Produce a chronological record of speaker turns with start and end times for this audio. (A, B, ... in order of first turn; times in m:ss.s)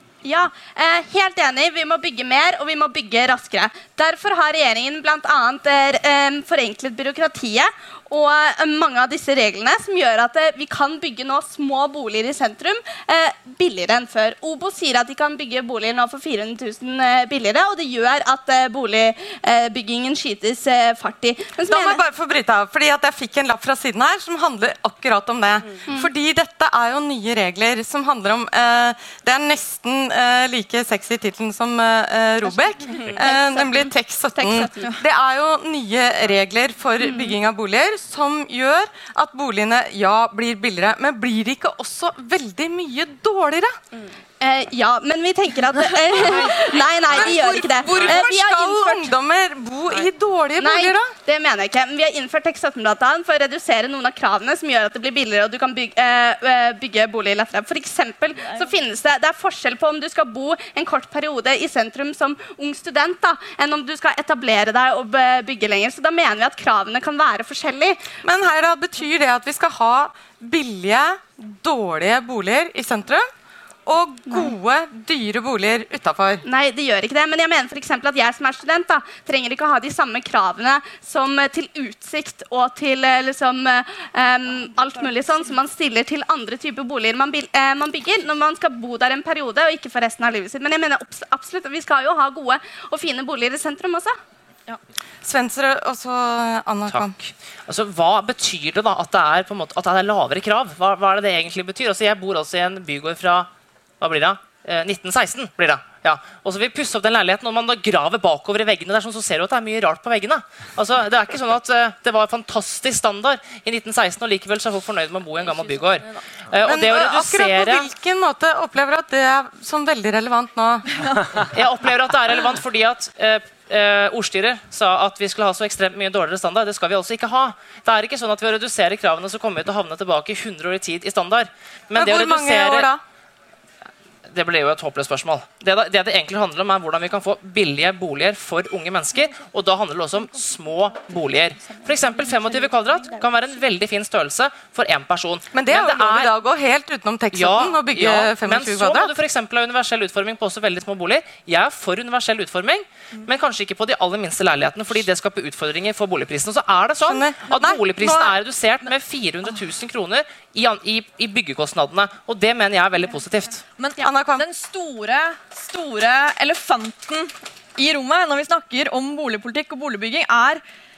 0:00.2-0:22.0 A
0:21.7-0:43.8 B
0:33.0-0:35.0 A
0:37.0-0:37.3 A
0:44.4-0:49.1 A
0:45.7-0:51.1 B
0:50.6-1:08.0 A
1:08.2-1:13.3 B
1:13.9-1:16.4 B
1:16.4-1:34.2 A
1:35.2-1:37.1 B
1:36.9-1:43.5 C
1:44.0-1:57.9 C
1:56.6-2:01.1 B
2:01.5-2:12.9 C
2:12.0-2:13.0 B
2:14.3-2:26.3 C
2:25.5-2:29.1 B
2:27.3-2:43.7 C
2:37.0-2:38.4 B
2:43.8-2:50.6 D
2:44.0-2:44.4 B